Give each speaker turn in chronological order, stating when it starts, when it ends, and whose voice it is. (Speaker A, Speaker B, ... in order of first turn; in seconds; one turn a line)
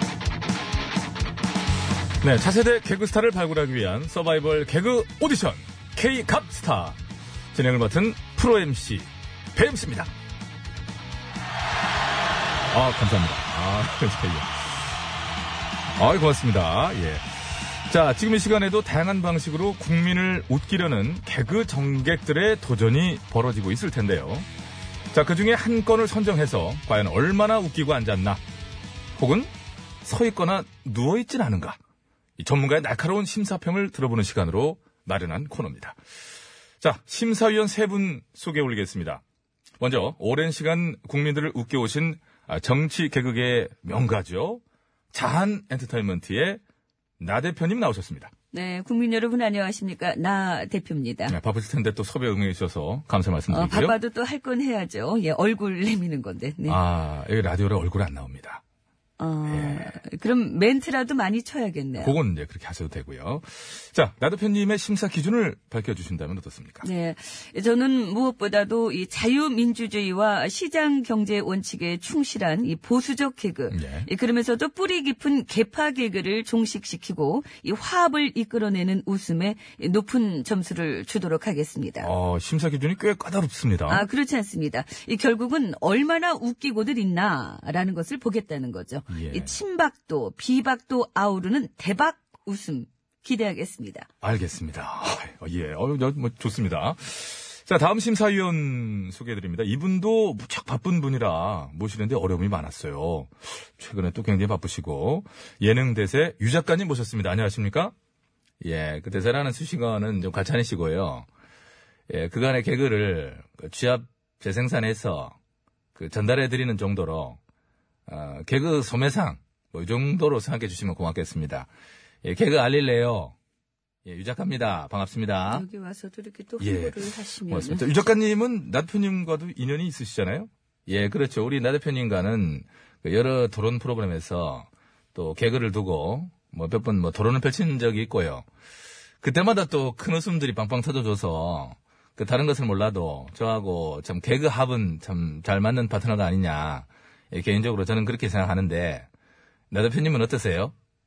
Speaker A: 2.2-7.0
Speaker A: 7.5-10.1
Speaker A: 12.7-14.6
Speaker A: 16.0-17.2
Speaker A: 17.9-24.5
Speaker A: 25.1-28.4
Speaker A: 29.2-29.5
Speaker A: 30.0-31.8
Speaker A: 32.4-36.0
Speaker A: 36.8-39.2
Speaker A: 39.8-44.6
Speaker A: 45.1-46.6
Speaker A: 47.2-48.3
Speaker B: 48.5-51.4
Speaker A: 51.3-54.0
Speaker B: 53.5-56.8
Speaker A: 56.6-58.6
Speaker B: 59.2-62.1
Speaker A: 59.5-59.9
Speaker A: 62.0-66.9
Speaker B: 66.8-82.1
Speaker A: 73.7-74.1
Speaker A: 82.0-84.0
Speaker B: 83.9-94.1
Speaker A: 89.1-89.6
Speaker A: 94.2-107.9
Speaker A: 108.6-111.2
Speaker A: 112.1-115.3
Speaker A: 115.9-117.4
Speaker A: 118.1-121.7
Speaker A: 122.2-123.3
Speaker A: 124.0-125.7
Speaker B: 125.5-127.8
Speaker A: 126.6-138.4
Speaker A: 139.2-149.1
Speaker A: 149.7-150.7